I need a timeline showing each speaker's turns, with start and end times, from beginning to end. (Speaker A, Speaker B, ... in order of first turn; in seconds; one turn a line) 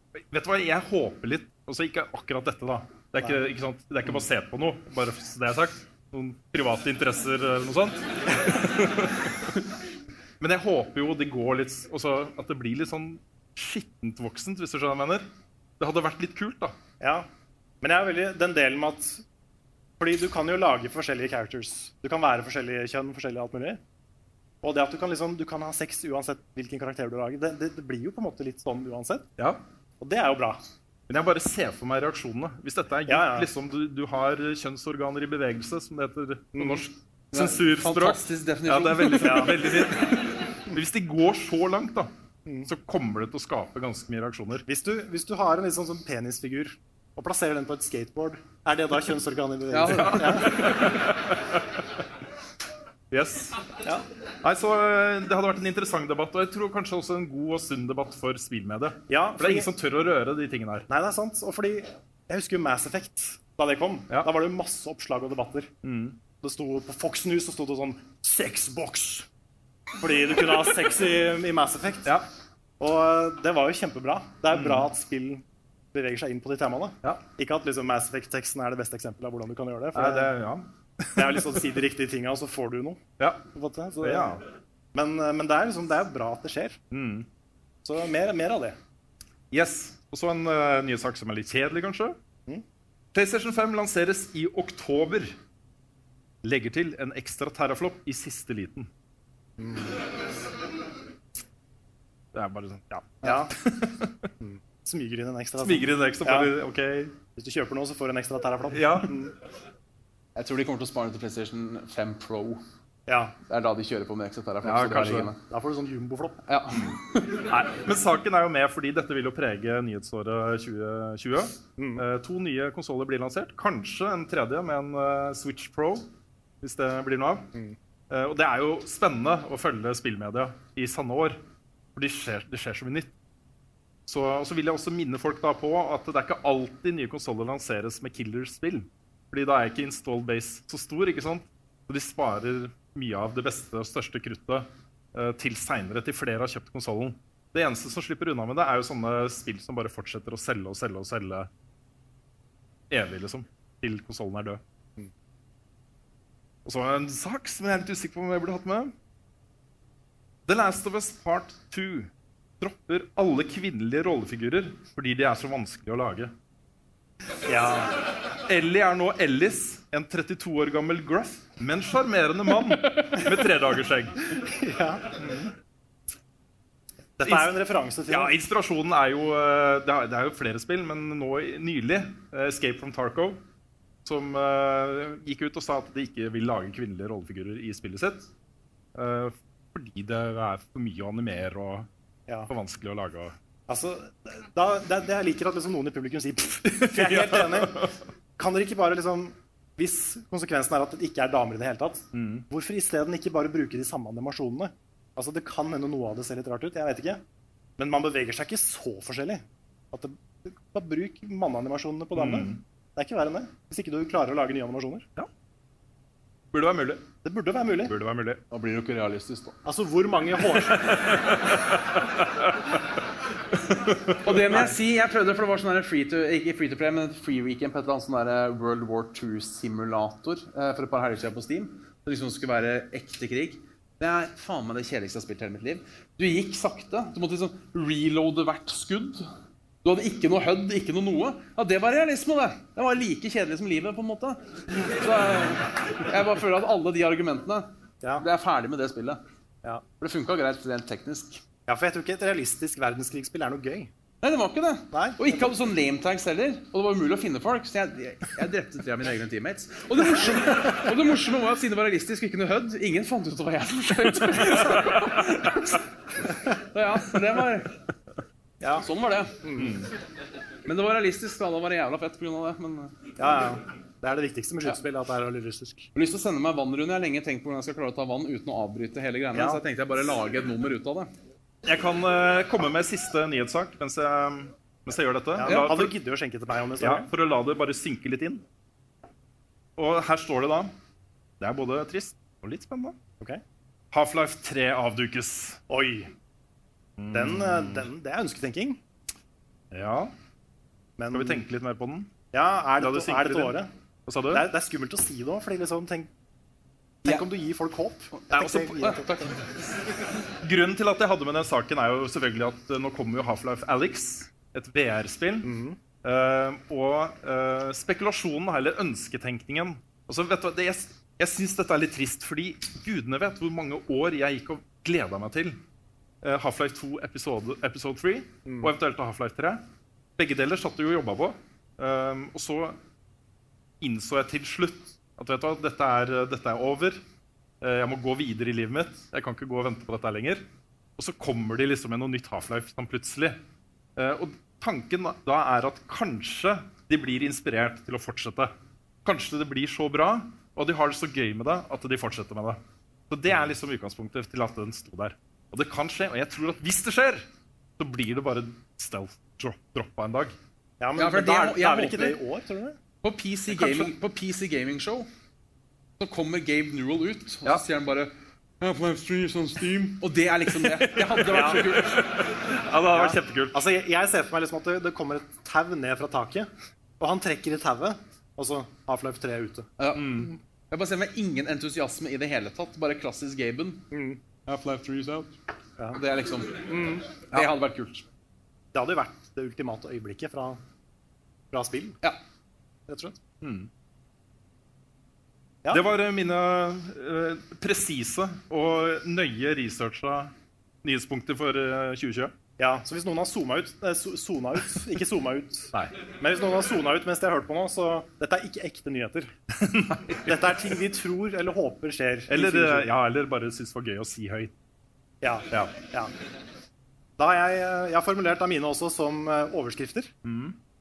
Speaker A: 0.2-9.5
Speaker A: 10.4-15.3
Speaker A: 15.8-16.8
Speaker B: 17.0-17.3
Speaker B: 17.8-19.2
Speaker B: 20.0-23.8
Speaker B: 24.6-29.3
Speaker B: 30.0-30.6
Speaker A: 31.1-42.1
Speaker B: 33.1-33.5
Speaker B: 36.6-36.8
Speaker C: 37.3-39.9
Speaker B: 39.2-39.7
Speaker A: 42.7-44.6
Speaker B: 44.7-50.6
Speaker C: 49.7-50.6
Speaker A: 49.8-51.8
Speaker A: 53.1-53.6
Speaker A: 54.4-60.9
Speaker B: 59.1-59.7
Speaker B: 60.9-65.7
Speaker A: 65.8-66.2
Speaker B: 66.4-69.3
Speaker B: 70.0-72.1
Speaker B: 72.8-80.3
Speaker A: 74.5-74.9
Speaker A: 79.9-81.6
Speaker B: 81.2-84.4
Speaker A: 84.0-84.4
Speaker B: 84.9-86.8
Speaker A: 86.9-87.3
Speaker B: 87.8-88.8
Speaker A: 89.5-92.2
Speaker A: 93.1-95.4
Speaker A: 96.4-98.9
Speaker B: 99.6-100.0
Speaker A: 102.3-104.3
Speaker B: 103.2-103.5
Speaker B: 104.4-106.5
Speaker A: 105.6-107.2
Speaker B: 107.4-109.3
Speaker A: 108.7-109.2
Speaker C: 110.3-112.6
Speaker B: 113.1-113.3
Speaker C: 113.5-115.4
Speaker A: 114.6-115.3
Speaker B: 115.5-116.4
Speaker C: 116.5-117.4
Speaker A: 117.4-126.1
Speaker B: 121.8-122.0
Speaker A: 126.6-127.5
Speaker A: 128.1-131.4
Speaker A: 131.9-133.1
Speaker A: 134.1-151.5
Speaker A: 152.9-154.6
Speaker A: 156.7-158.9
Speaker A: 160.5-166.3
Speaker B: 167.5-168.0
Speaker A: 168.5-174.2
Speaker B: 174.3-175.3
Speaker A: 175.2-175.5
Speaker B: 177.2-178.3
Speaker A: 177.2-177.5
Speaker A: 178.1-183.4
Speaker A: 184.1-188.3
Speaker A: 188.9-191.9
Speaker A: 192.5-193.4
Speaker B: 193.7-207.2
Speaker A: 196.7-197.9
Speaker A: 202.1-202.5
Speaker B: 207.8-215.1
Speaker A: 212.2-212.6
Speaker A: 216.5-217.1
Speaker B: 217.2-217.9
Speaker A: 217.9-218.4
Speaker C: 218.5-219.6
Speaker B: 219.7-221.1
Speaker A: 221.1-221.5
Speaker C: 224.2-239.3
Speaker C: 239.8-249.2
Speaker C: 250.0-251.4
Speaker B: 251.7-253.9
Speaker C: 254.2-265.8
Speaker B: 254.9-255.4
Speaker C: 266.6-267.7
Speaker C: 268.8-269.4
Speaker B: 269.4-269.8
Speaker A: 269.6-269.9
Speaker C: 270.7-273.0
Speaker B: 273.2-275.9
Speaker C: 275.9-281.1
Speaker B: 279.3-279.6
Speaker A: 281.6-286.0
Speaker B: 285.4-287.1
Speaker A: 286.8-288.4
Speaker A: 289.8-290.7
Speaker A: 291.4-293.0
Speaker A: 293.9-295.6
Speaker B: 295.7-296.1
Speaker A: 297.0-297.8
Speaker B: 297.1-298.8
Speaker A: 299.7-300.1
Speaker B: 301.0-301.4
Speaker A: 301.1-302.2
Speaker B: 302.3-303.7
Speaker A: 302.8-304.5
Speaker B: 304.3-306.1
Speaker B: 307.1-309.1
Speaker A: 308.3-309.0
Speaker C: 308.8-309.3
Speaker A: 310.4-315.5
Speaker B: 315.4-315.8
Speaker A: 316.0-325.6
Speaker A: 326.2-329.6
Speaker B: 328.5-328.7
Speaker A: 330.2-332.8
Speaker A: 333.8-337.0
Speaker A: 337.6-340.5
Speaker A: 341.0-343.4
Speaker A: 344.0-348.5
Speaker A: 349.1-357.3
Speaker A: 357.8-360.4
Speaker B: 360.8-362.8
Speaker C: 361.0-362.2
Speaker C: 363.0-365.1
Speaker A: 363.5-363.9
Speaker C: 366.0-372.0
Speaker A: 370.9-373.6
Speaker B: 371.3-371.6
Speaker B: 372.9-376.5
Speaker B: 377.0-380.4
Speaker C: 379.8-383.9
Speaker A: 379.9-380.3
Speaker B: 383.9-384.2
Speaker C: 384.5-385.3
Speaker C: 385.9-386.6
Speaker B: 386.7-387.2
Speaker C: 387.3-388.1
Speaker B: 388.7-390.6
Speaker B: 391.5-392.0
Speaker B: 392.9-393.2
Speaker A: 393.4-393.7
Speaker A: 395.7-402.4
Speaker B: 402.6-409.3
Speaker A: 409.6-410.6
Speaker B: 410.2-412.9
Speaker A: 412.3-414.5
Speaker B: 415.2-416.1
Speaker B: 417.2-420.1
Speaker A: 420.2-420.6